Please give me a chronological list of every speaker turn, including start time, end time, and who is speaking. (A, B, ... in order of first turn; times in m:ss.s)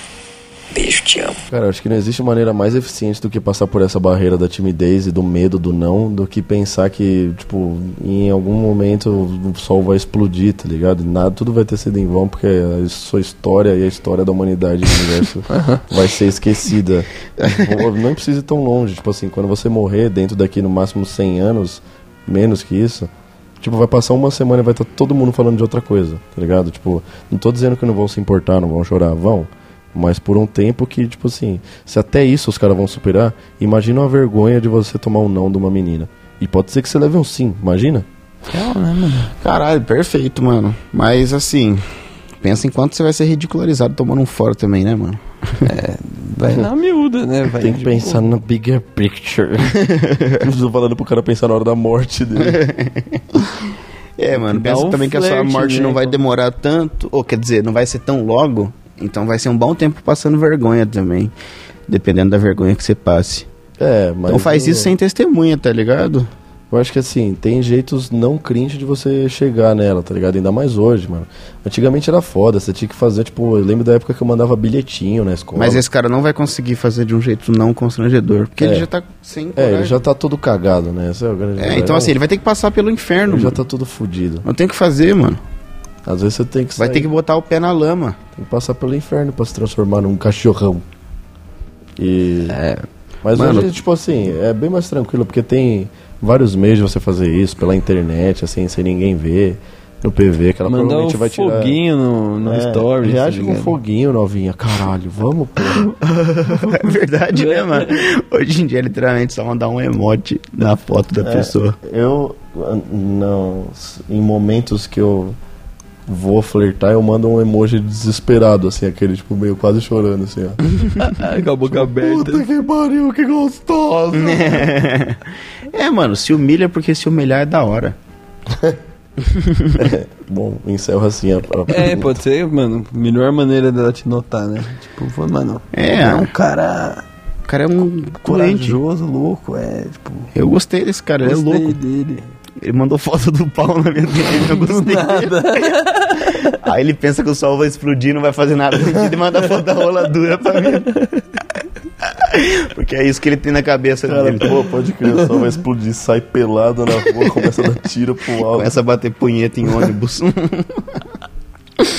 0:01.5-0:38.1 A
0:15.5-0:15.8 B
0:38.5-0:39.3 B
0:39.4-0:41.9 C
0:42.4-0:45.7 C
0:45.7-0:48.3 B
0:47.5-0:49.8 A
0:49.9-0:50.4 C
0:50.4-0:52.6 A
0:52.4-0:53.6 C
0:54.2-1:01.3 C
0:54.3-0:56.2 B
1:01.9-1:03.5 C
1:03.8-1:05.0 A
1:04.3-1:06.3 C
1:06.7-1:15.8 A
1:15.6-1:20.0 C
1:18.6-1:18.9 A
1:19.6-1:22.2 A
1:21.6-1:23.6 C
1:23.3-1:24.5 A
1:24.5-1:25.4 C
1:26.1-1:27.1 A
1:26.8-1:28.2 C
1:28.4-1:30.8 A
1:32.0-1:32.6 A
1:32.5-1:32.9 B
1:33.2-1:41.8 A
1:33.3-1:33.7 C
1:40.7-1:43.8 B
1:42.4-1:45.9 A
1:46.0-1:51.8 C
1:47.3-1:47.9 B
1:51.2-1:55.4 A
1:56.1-2:00.6 A
2:01.0-2:02.5 B
2:01.7-2:04.7 A
2:04.1-2:05.2 C
2:05.7-2:08.0 C
2:08.5-2:08.8 A
2:09.2-2:09.8 C
2:09.8-2:12.2 A
2:11.7-2:17.0 B
2:15.7-2:16.3 C
2:17.5-2:18.8 C
2:18.2-2:20.3 B
2:20.3-2:21.8 C
2:21.2-2:22.3 B
2:22.6-2:25.7 C
2:24.7-2:26.5 B
2:26.5-2:31.0 C
2:32.0-2:34.6 C
2:34.1-2:38.8 A
2:38.5-2:41.0 C